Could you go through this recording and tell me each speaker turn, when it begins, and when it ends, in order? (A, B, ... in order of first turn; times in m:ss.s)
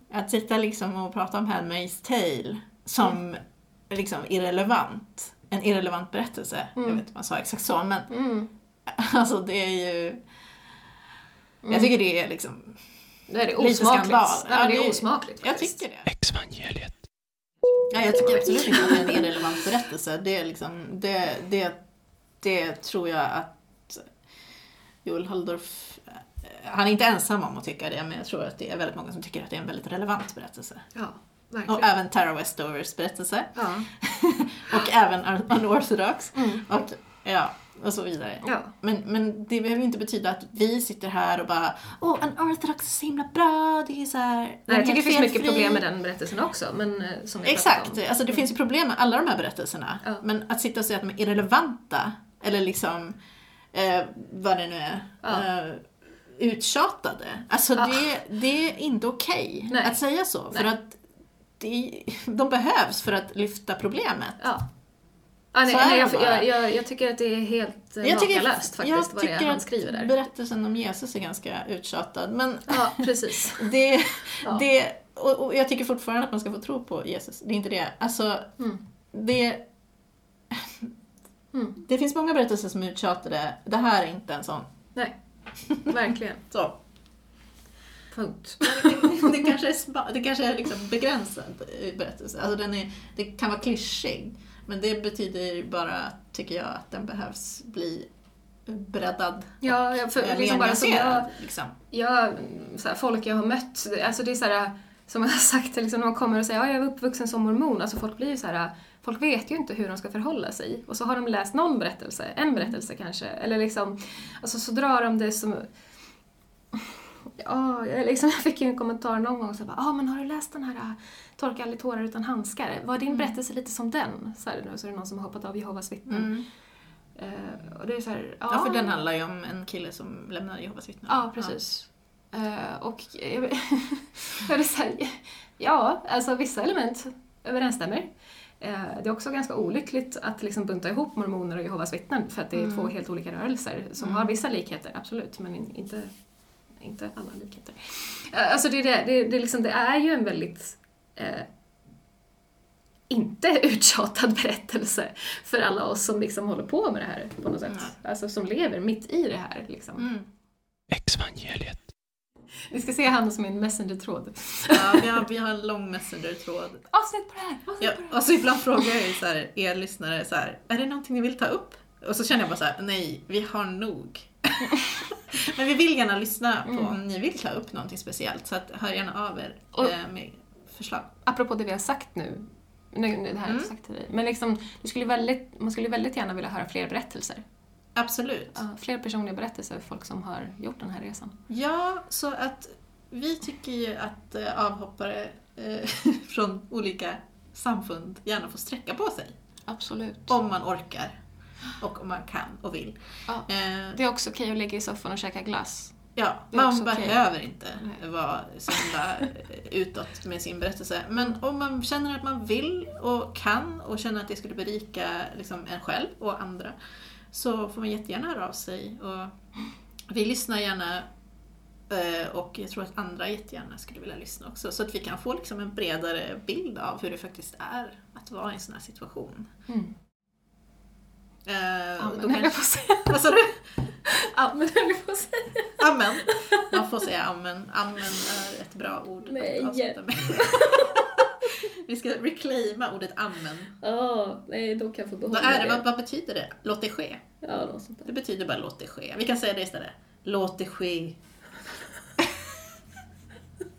0:00.1-0:08.1 A
0:06.8-0:07.0 B
0:08.1-0:08.5 B
0:08.9-0:10.2 A
0:11.6-0:11.9 B
0:11.7-0:12.8 A
0:13.3-0:15.8 B
0:13.6-0:16.1 A
0:16.0-0:17.1 C
0:17.9-0:21.8 A
0:18.0-0:19.4 B
0:22.4-0:24.1 A
0:25.0-0:30.9 A
0:30.9-0:31.9 B
0:31.7-0:45.8 A
0:33.5-0:33.9 B
0:36.3-0:36.6 B
0:38.4-0:38.7 B
0:44.7-0:48.4 B
0:47.4-0:53.2 A
0:53.7-1:01.0 A
0:57.7-0:58.1 B
0:59.7-1:00.0 B
1:01.6-1:04.4 A
1:04.4-1:04.6 B
1:05.5-1:10.1 B
1:05.7-1:06.5 A
1:08.0-1:18.5 A
1:12.7-1:13.7 B
1:19.1-1:19.6 A
1:20.5-1:20.9 A
1:21.5-1:21.8 B
1:21.8-1:24.7 A
1:25.8-1:26.4 B
1:26.5-1:26.8 A
1:28.1-1:29.5 B
1:28.6-1:38.1 A
1:38.6-1:41.7 A
1:39.6-1:41.3 B
1:41.9-1:55.7 B
1:57.4-2:06.4 B
2:03.0-2:03.3 A
2:06.1-2:06.4 A
2:07.2-2:09.0 B
2:08.5-2:11.6 A
2:11.1-2:26.1 B
2:22.6-2:22.9 A
2:24.0-2:24.3 A
2:26.8-2:31.5 B
2:33.1-2:40.1 B
2:40.0-2:40.3 A
2:40.9-2:41.9 C
2:42.7-2:45.2 B
2:44.7-2:46.8 A
2:46.9-2:48.2 B
2:47.8-3:01.1 A
2:56.7-2:56.9 B
3:01.2-3:07.4 B
3:07.9-3:08.6 A
3:08.5-3:11.4 B
3:11.5-3:19.4 A
3:19.7-3:20.3 B
3:20.3-3:21.1 A
3:21.8-3:24.0 A
3:23.3-3:26.0 B
3:26.2-3:36.8 A
3:26.5-3:27.2 B
3:37.3-3:39.4 A
3:40.1-3:41.1 A
3:41.9-3:49.5 A
3:49.7-3:49.9 B
3:51.4-3:53.6 A
3:52.0-3:53.3 B
3:54.0-3:56.7 B
3:55.8-4:03.7 A
3:59.2-4:01.3 B
4:03.8-4:05.8 B
4:05.3-4:07.2 A
4:07.4-4:08.1 B
4:08.0-4:11.2 A